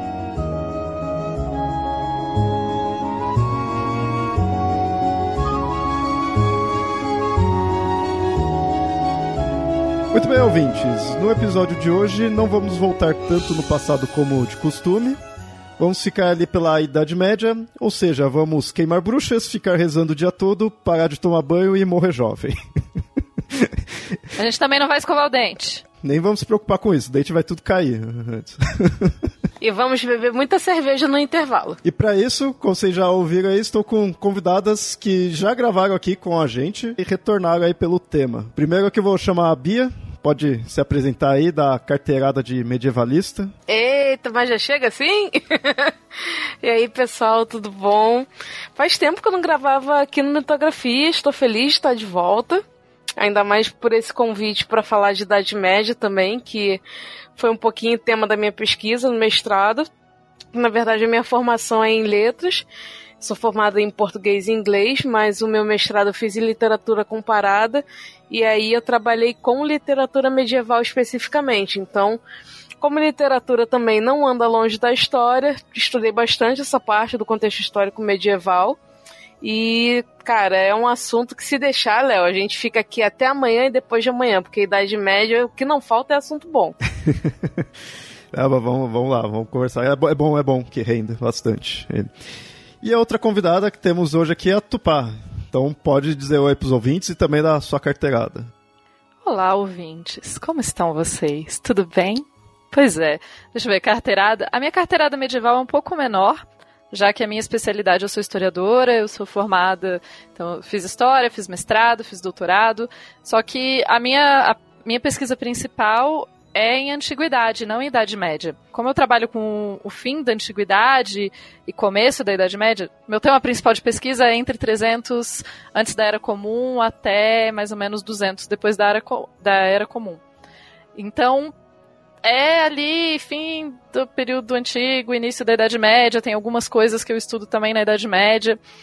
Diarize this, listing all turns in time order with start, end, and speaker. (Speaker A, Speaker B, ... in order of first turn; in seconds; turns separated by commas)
Speaker A: 10.1-15.2, Speaker A: 15.8-22.6, Speaker A: 23.5-24.2, Speaker B: 24.4-25.8, Speaker A: 26.0-29.1, Speaker C: 29.6-31.8, Speaker A: 31.8-43.5, Speaker C: 43.7-45.9, Speaker C: 46.6-52.6, Speaker C: 53.2-56.8, Speaker C: 57.4-59.9, Speaker C: 60.5-62.7, Speaker C: 63.2-72.2, Speaker C: 72.8-78.8, Speaker C: 79.4-86.8, Speaker A: 87.0-87.6, Speaker A: 88.3-92.1, Speaker A: 92.8-98.5, Speaker B: 99.2-130.2, Speaker B: 130.9-131.5, Speaker B: 132.2-138.6